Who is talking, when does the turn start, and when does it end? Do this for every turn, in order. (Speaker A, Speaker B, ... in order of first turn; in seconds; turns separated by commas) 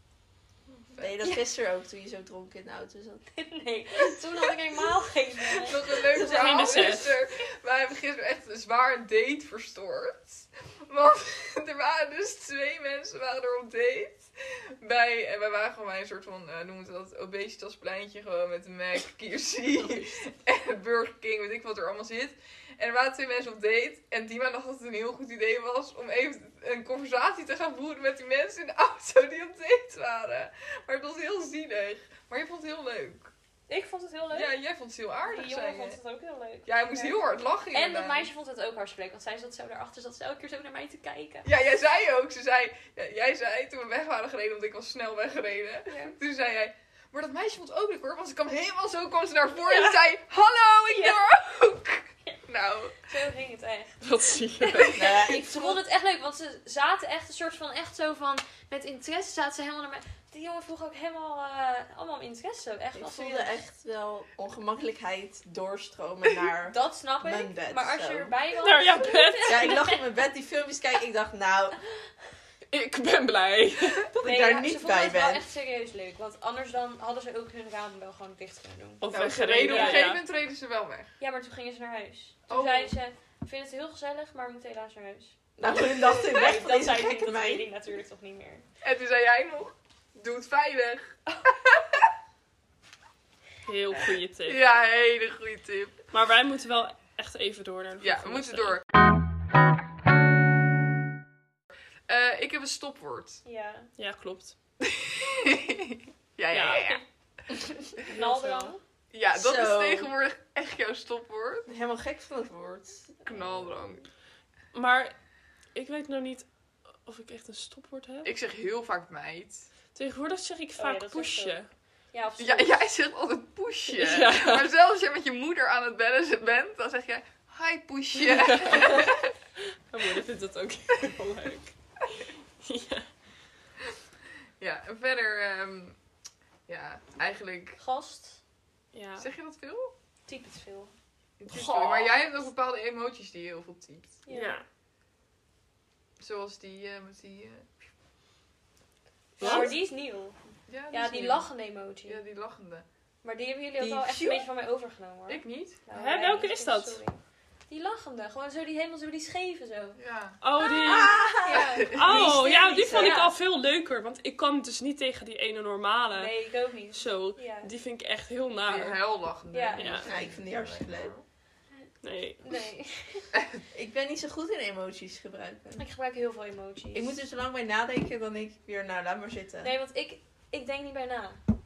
Speaker A: 0.7-1.1, Speaker B: 1.0-3.2, Speaker C: 3.3-7.0, Speaker A: 5.6-33.3, Speaker D: 6.1-7.2, Speaker C: 33.7-34.5, Speaker A: 34.3-36.0, Speaker C: 35.3-41.5, Speaker A: 36.7-38.3, Speaker A: 41.5-53.1, Speaker C: 45.9-46.1, Speaker C: 49.6-50.0, Speaker C: 50.9-51.2, Speaker C: 53.0-54.0, Speaker A: 54.0-55.0, Speaker D: 54.2-54.8, Speaker C: 54.6-63.5, Speaker B: 54.9-55.8, Speaker B: 62.9-68.3, Speaker C: 66.7-70.0, Speaker D: 68.6-69.9, Speaker B: 69.4-71.8, Speaker D: 72.7-74.1, Speaker A: 73.6-74.1, Speaker B: 74.2-75.4, Speaker C: 74.2-79.0, Speaker D: 79.0-80.2, Speaker A: 79.1-81.1, Speaker C: 79.6-80.1, Speaker C: 81.2-88.7, Speaker A: 82.5-82.9, Speaker B: 85.6-87.7, Speaker A: 88.8-92.1, Speaker D: 93.7-94.6, Speaker A: 94.5-96.0, Speaker D: 96.1-98.8, Speaker A: 98.0-98.8, Speaker A: 102.1-103.4, Speaker C: 103.5-103.9, Speaker D: 104.0-104.5, Speaker A: 104.8-107.0, Speaker D: 106.5-107.0, Speaker C: 108.0-108.8, Speaker D: 108.1-108.7, Speaker A: 109.1-111.7, Speaker B: 109.3-110.1, Speaker B: 111.7-113.8, Speaker A: 113.2-114.1, Speaker D: 114.7-115.2, Speaker D: 115.7-116.5, Speaker D: 117.0-118.3, Speaker A: 118.2-119.7, Speaker D: 120.0-121.7, Speaker C: 120.8-121.6, Speaker C: 122.1-122.8, Speaker A: 122.4-129.3, Speaker D: 123.9-124.7, Speaker D: 128.2-129.1, Speaker D: 129.9-131.7, Speaker D: 132.6-133.1, Speaker A: 134.6-136.0, Speaker A: 136.7-137.8, Speaker C: 137.8-138.4, Speaker D: 138.9-139.3, Speaker A: 139.2-139.9, Speaker C: 140.3-140.9, Speaker A: 141.4-144.2, Speaker C: 141.5-142.2, Speaker C: 144.3-144.6, Speaker D: 144.3-144.6, Speaker A: 146.2-147.8, Speaker C: 149.4-150.4, Speaker D: 149.4-149.8, Speaker B: 149.4-149.7, Speaker A: 150.7-151.5, Speaker C: 150.9-152.2, Speaker A: 152.1-152.9, Speaker C: 153.2-160.0, Speaker B: 153.8-154.4, Speaker A: 155.3-155.8, Speaker D: 155.9-157.0, Speaker A: 160.0-160.4, Speaker D: 160.4-161.4, Speaker B: 160.7-161.7, Speaker C: 161.4-163.3, Speaker A: 161.6-162.3, Speaker D: 161.9-166.3, Speaker C: 166.1-167.7, Speaker D: 166.9-169.0, Speaker A: 168.7-171.2, Speaker C: 169.5-170.0, Speaker D: 169.8-170.1, Speaker B: 170.0-171.1, Speaker D: 172.0-172.4, Speaker C: 172.4-173.3, Speaker B: 173.7-175.8, Speaker C: 175.8-177.2, Speaker B: 176.9-179.7, Speaker C: 179.6-181.4